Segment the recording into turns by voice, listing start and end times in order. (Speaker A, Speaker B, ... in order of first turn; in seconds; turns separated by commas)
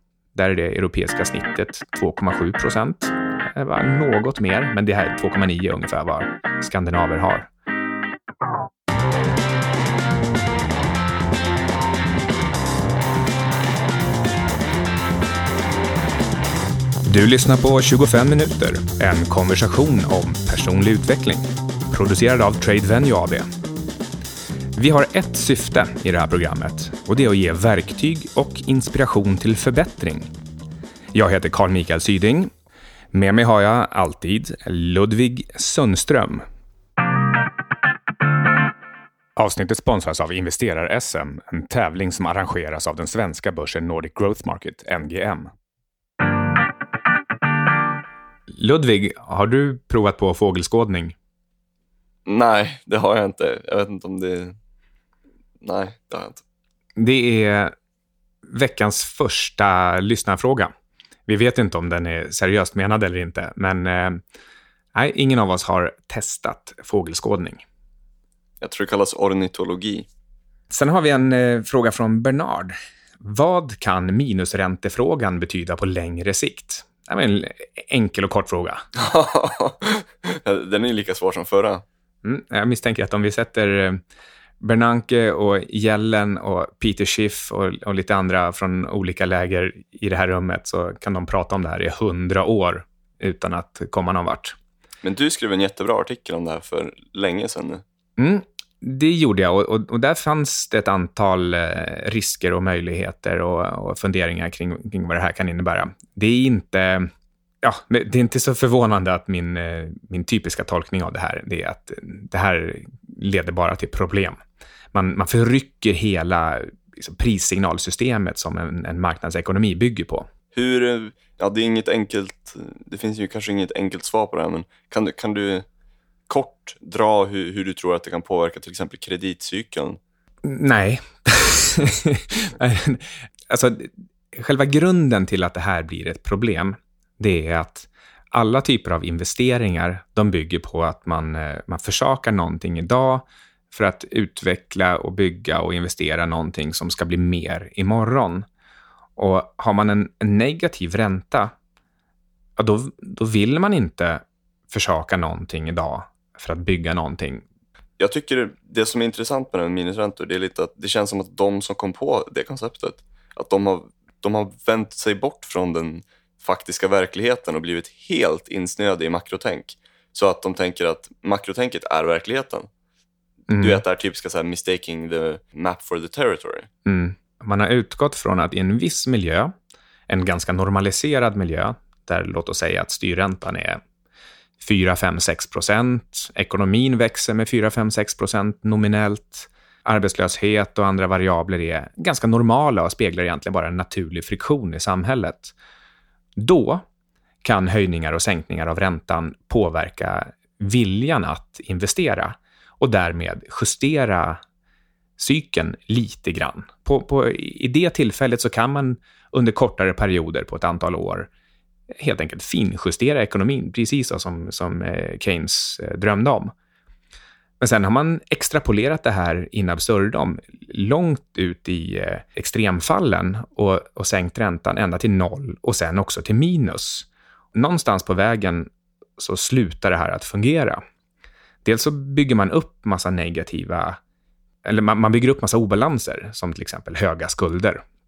Speaker A: 0.3-7.5, Speaker A: 17.0-23.5, Speaker A: 24.8-30.3, Speaker A: 31.1-32.5, Speaker A: 33.1-36.4, Speaker A: 39.4-45.5, Speaker A: 48.5-51.1, Speaker B: 52.2-54.5, Speaker B: 55.6-56.4, Speaker A: 57.0-57.7, Speaker A: 58.5-60.7, Speaker A: 61.3-64.2, Speaker A: 64.9-67.6, Speaker B: 68.6-70.1, Speaker A: 70.7-78.8, Speaker B: 78.9-81.8, Speaker A: 82.2-84.0, Speaker A: 84.6-94.6, Speaker B: 95.0-97.8, Speaker A: 98.2-107.1, Speaker A: 107.6-114.4, Speaker A: 114.9-120.3, Speaker B: 120.5-125.7, Speaker B: 126.3-130.0, Speaker A: 130.4-148.5, Speaker A: 149.2-151.5, Speaker A: 152.6-157.4, Speaker B: 158.0-172.7, Speaker A: 173.5-173.8, Speaker B: 173.6-176.7, Speaker A: 176.8-179.5, Speaker A: 180.1-183.8, Speaker A: 184.6-195.5, Speaker A: 196.3-196.8, Speaker A: 197.4-204.4, Speaker A: 205.2-211.3, Speaker A: 211.9-216.5, Speaker A: 217.6-230.8, Speaker A: 231.6-234.0, Speaker A: 234.6-237.8